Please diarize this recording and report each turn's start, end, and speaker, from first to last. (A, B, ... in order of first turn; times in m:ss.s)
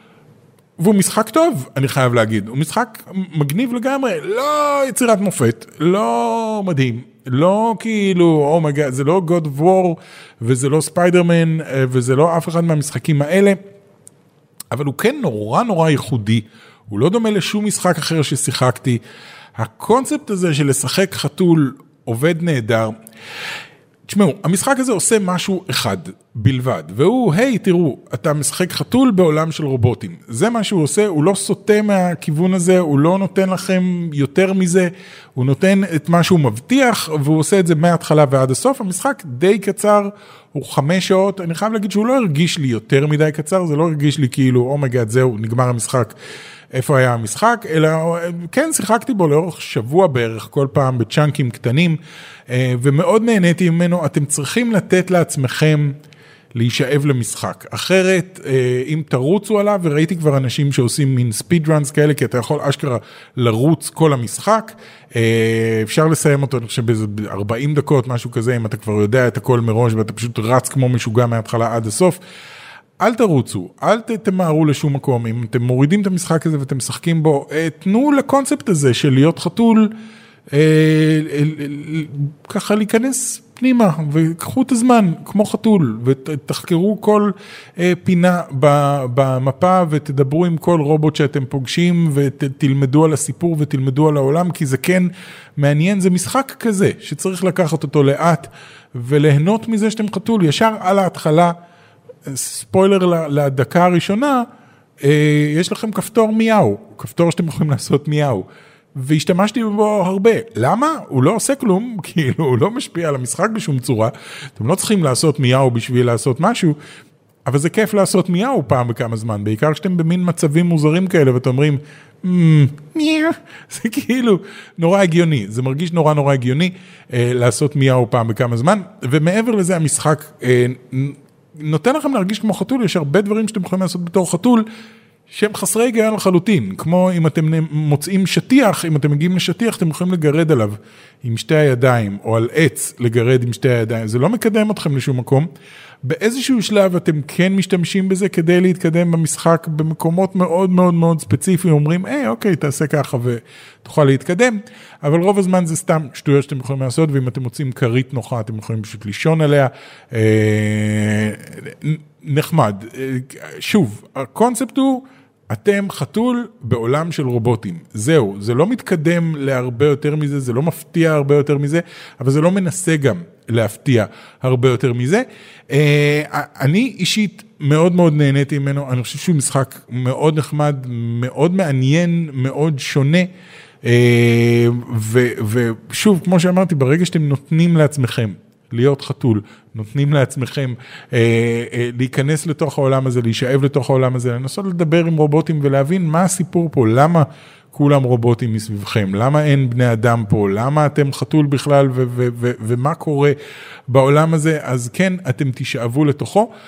0:00.8-0:13.6 A
0:14.7-0:19.0 A
0:19.6-0:22.9 A
0:24.1-0:46.1 A
0:46.7-0:52.0 A
0:52.5-0:55.9 A
0:56.5-1:12.2 A
1:13.0-1:19.9 A
1:20.5-1:41.5 A
1:42.3-1:44.4 A
1:45.0-1:56.8 A
1:57.4-2:14.6 A
2:15.3-2:25.5 A
2:26.0-3:03.3 A
3:03.8-3:23.4 A
3:23.9-3:26.5 A